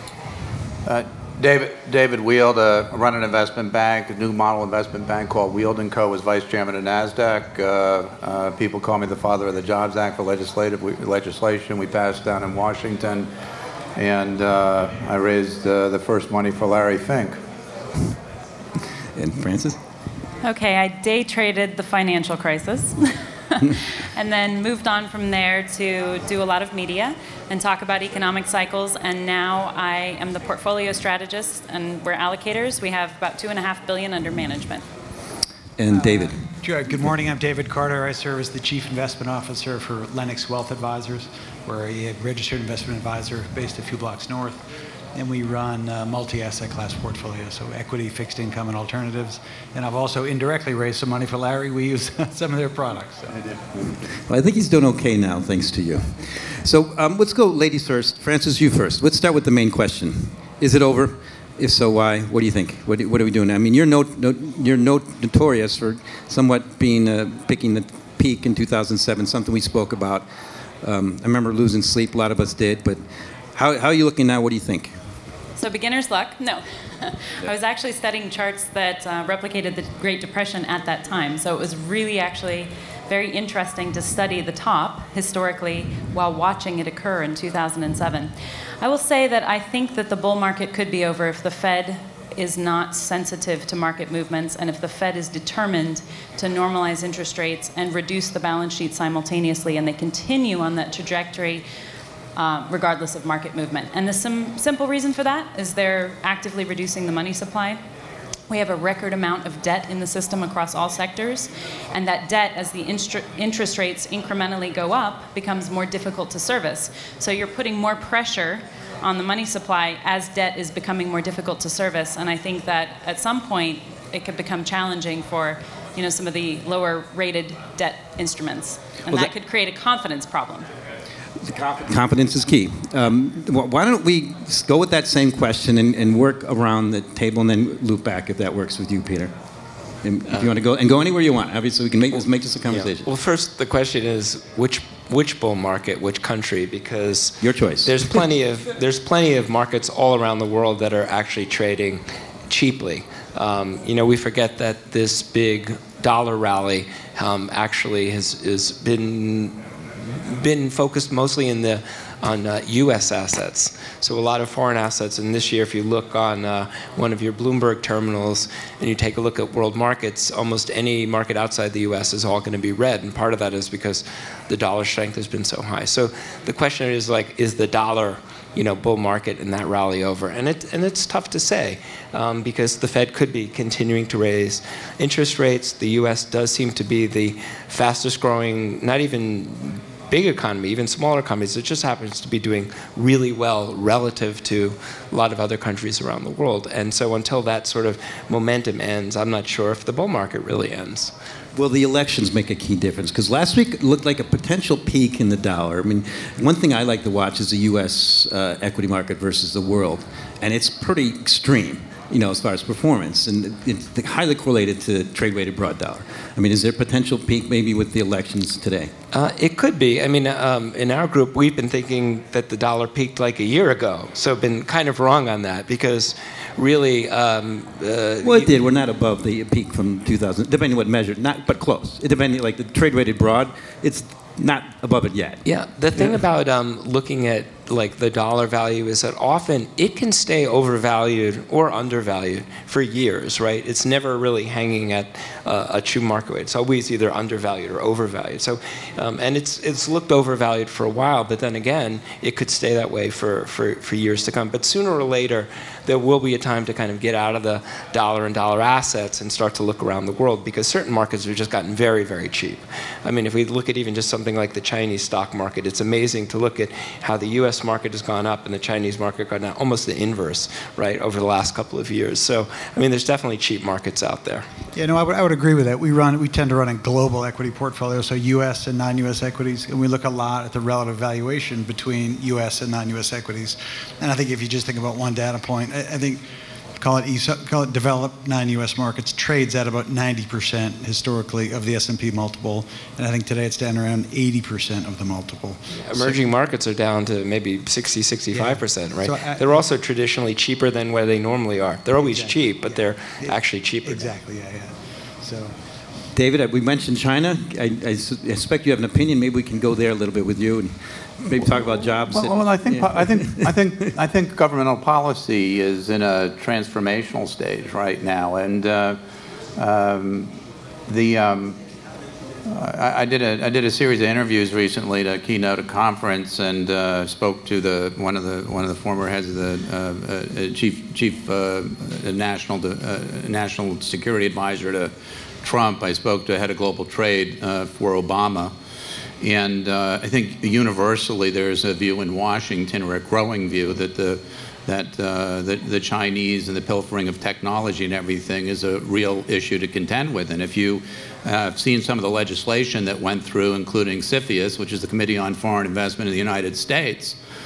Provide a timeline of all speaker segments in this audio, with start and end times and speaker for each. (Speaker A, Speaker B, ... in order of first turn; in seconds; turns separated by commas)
Speaker A: 0.8-13.3, Speaker A: 13.9-17.4, Speaker B: 19.1-19.8, Speaker C: 20.4-34.8, Speaker B: 35.8-36.4, Speaker D: 36.6-44.6, Speaker D: 45.1-53.6, Speaker B: 54.3-70.2, Speaker B: 70.8-73.0, Speaker B: 73.5-74.9, Speaker C: 75.6-101.6, Speaker C: 102.3-107.8, Speaker C: 108.5-130.7, Speaker B: 131.4-139.3, Speaker B: 140.0-143.1, Speaker E: 142.7-201.1, Speaker B: 147.4-148.0, Speaker B: 201.5-218.9, Speaker E: 219.1-228.5, Speaker B: 228.2-235.4, Speaker E: 235.4-274.4, Speaker D: 274.7-286.2, Speaker D: 286.8-296.1, Speaker E: 295.8-304.1, Speaker D: 298.3-299.6, Speaker D: 302.0-305.5, Speaker B: 306.1-313.5, Speaker A: 312.1-319.0, Speaker A: 319.6-320.3, Speaker A: 320.9-321.6, Speaker A: 322.5-338.5, Speaker A: 339.2-357.2